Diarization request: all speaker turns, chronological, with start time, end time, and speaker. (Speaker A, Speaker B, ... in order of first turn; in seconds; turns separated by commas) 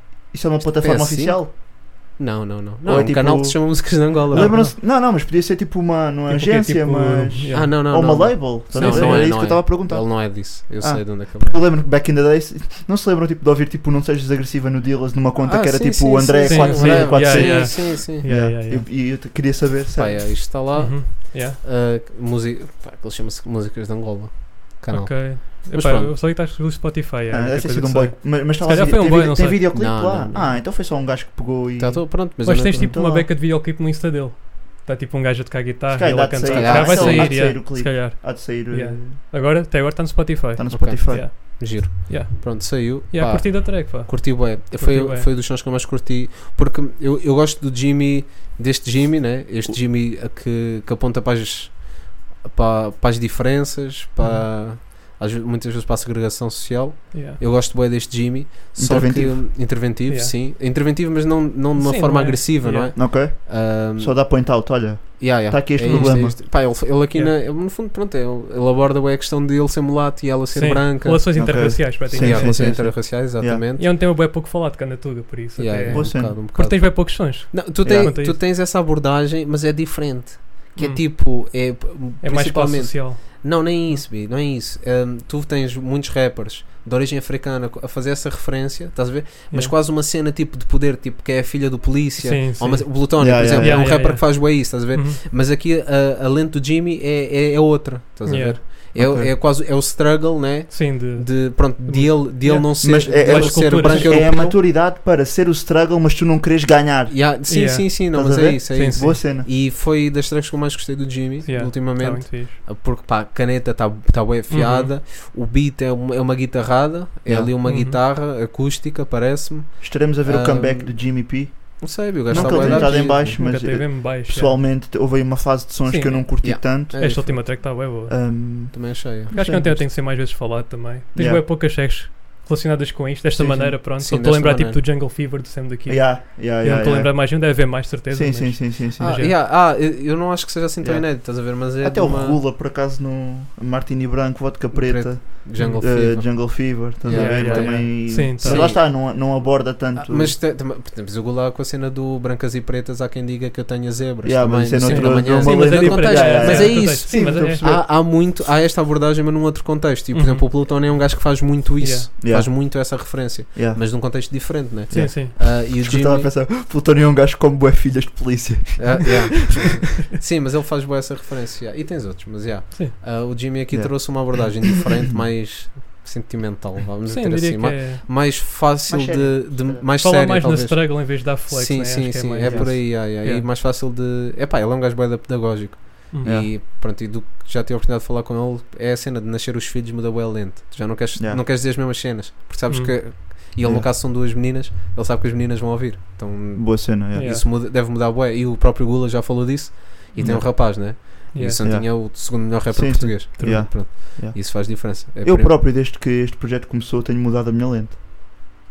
Speaker A: 0.3-1.5, Speaker B: 0.8-4.6, Speaker A: 2.9-20.4, Speaker C: 4.3-4.8, Speaker C: 6.3-9.5, Speaker B: 7.5-11.6, Speaker B: 15.4-18.4, Speaker C: 16.4-18.9, Speaker B: 19.9-26.1, Speaker C: 20.7-21.6, Speaker C: 24.9-30.0, Speaker A: 27.3-33.3, Speaker B: 29.8-30.6, Speaker B: 31.8-32.9, Speaker C: 32.4-45.3, Speaker A: 35.9-39.2, Speaker B: 36.5-37.5, Speaker A: 40.6-41.3, Speaker B: 40.7-64.3, Speaker C: 54.2-54.5, Speaker C: 57.1-57.4, Speaker A: 58.8-59.4, Speaker C: 60.1-60.3, Speaker C: 61.8-63.1, Speaker A: 62.8-66.4, Speaker B: 65.2-73.9, Speaker C: 65.9-67.4, Speaker C: 70.5-73.0, Speaker A: 71.3-73.6, Speaker C: 73.8-78.4, Speaker B: 75.6-104.5, Speaker A: 75.9-76.4, Speaker A: 77.8-78.1, Speaker C: 80.8-81.7, Speaker C: 82.2-84.0, Speaker C: 92.2-95.2, Speaker A: 93.2-94.1, Speaker C: 98.3-98.6, Speaker A: 98.9-99.3, Speaker C: 100.7-104.6, Speaker A: 102.8-107.2, Speaker B: 107.1-123.4, Speaker C: 107.5-108.0, Speaker A: 108.1-109.5, Speaker C: 108.7-109.2, Speaker C: 111.4-112.6, Speaker C: 114.5-114.9, Speaker A: 117.3-117.5, Speaker C: 117.6-118.0, Speaker A: 119.8-129.9, Speaker C: 122.3-124.6, Speaker C: 125.9-128.4, Speaker B: 126.4-127.4, Speaker B: 128.7-129.3, Speaker C: 129.3-139.3, Speaker A: 131.1-131.4, Speaker A: 133.3-133.8, Speaker B: 134.0-134.8, Speaker A: 135.9-139.2, Speaker B: 139.0-142.4, Speaker A: 140.8-150.4, Speaker B: 144.7-149.4, Speaker C: 145.6-146.1, Speaker C: 147.1-148.7, Speaker B: 149.9-166.3, Speaker A: 154.2-157.9, Speaker C: 154.9-157.7, Speaker C: 160.1-160.5, Speaker C: 161.8-162.1, Speaker A: 162.2-164.3, Speaker A: 164.9-169.6, Speaker C: 164.9-165.3, Speaker B: 168.8-205.5, Speaker A: 173.7-174.7, Speaker C: 177.1-178.1, Speaker A: 178.9-179.9, Speaker C: 180.0-183.4, Speaker A: 182.4-182.8, Speaker C: 186.1-186.4, Speaker A: 186.2-186.5, Speaker A: 191.2-191.4, Speaker C: 192.7-193.0, Speaker A: 193.6-193.9, Speaker A: 196.6-197.3, Speaker C: 197.1-197.4, Speaker A: 200.2-201.0, Speaker C: 201.3-201.6, Speaker A: 201.6-208.0, Speaker C: 203.4-203.7